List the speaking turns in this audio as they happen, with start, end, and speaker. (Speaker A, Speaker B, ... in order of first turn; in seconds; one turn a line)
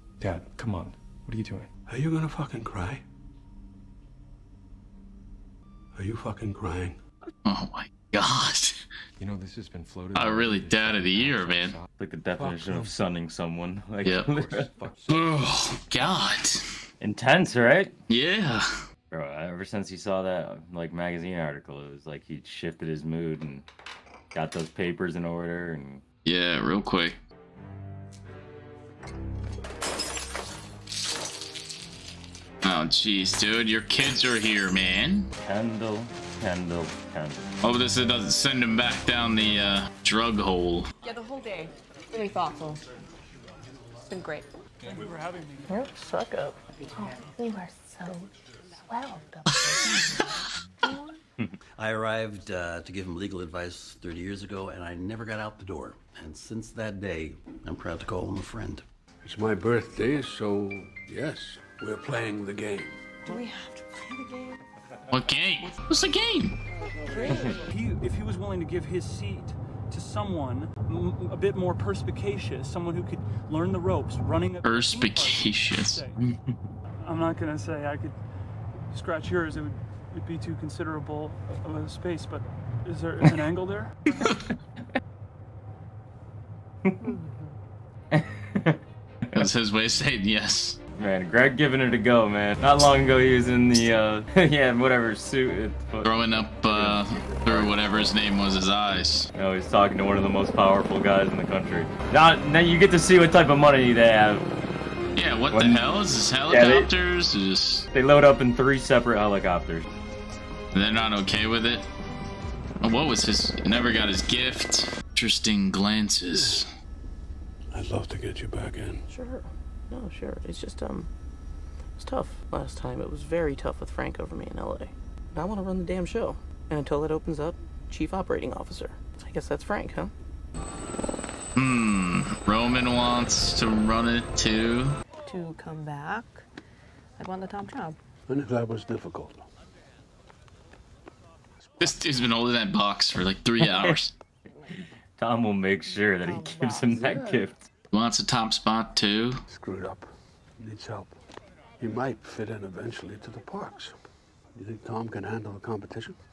Speaker A: 0.2-1.7
Speaker B: 1.9-3.0
Speaker B: 5.9-7.0
Speaker C: 7.4-8.8
Speaker A: 9.2-11.9
Speaker C: 10.1-11.8
Speaker D: 12.0-14.7
Speaker B: 12.4-12.8
Speaker C: 14.0-14.3
Speaker A: 14.4-15.3
Speaker C: 15.1-16.6
Speaker D: 17.0-17.9
Speaker C: 18.1-18.8
Speaker D: 19.1-23.6
Speaker D: 24.3-26.0
Speaker C: 26.2-27.2
Speaker C: 32.6-35.3
Speaker D: 35.4-37.5
Speaker C: 37.6-40.9
Speaker E: 41.0-42.8
Speaker E: 44.1-44.5
Speaker F: 44.8-45.7
Speaker G: 45.7-46.6
Speaker E: 46.9-50.2
Speaker E: 50.8-51.2
Speaker H: 51.8-58.8
Speaker B: 59.2-63.1
Speaker E: 63.2-64.6
Speaker C: 65.1-66.6
Speaker E: 67.0-67.6
Speaker F: 67.1-76.2
Speaker C: 74.6-76.1
Speaker F: 77.0-78.2
Speaker F: 78.9-84.2
Speaker D: 88.1-88.8
Speaker C: 89.3-90.8
Speaker D: 91.0-96.1
Speaker C: 96.0-99.3
Speaker D: 96.7-97.0
Speaker D: 99.3-104.5
Speaker C: 105.1-107.9
Speaker D: 105.5-105.8
Speaker D: 106.5-106.9
Speaker D: 107.9-109.9
Speaker C: 110.7-111.9
Speaker C: 112.8-116.7
Speaker B: 116.3-116.6
Speaker B: 117.7-119.0
Speaker G: 119.1-121.1
Speaker G: 122.0-130.1
Speaker C: 131.6-134.9
Speaker E: 135.2-136.4
Speaker E: 137.2-138.0
Speaker B: 138.3-139.4
Speaker B: 141.7-142.0
Speaker C: 141.8-144.1
Speaker D: 143.6-143.9
Speaker D: 145.2-147.6
Speaker E: 146.2-146.9
Speaker B: 146.9-147.5
Speaker C: 147.9-149.4
Speaker B: 149.5-151.1
Speaker B: 151.8-154.0
Speaker B: 154.5-156.2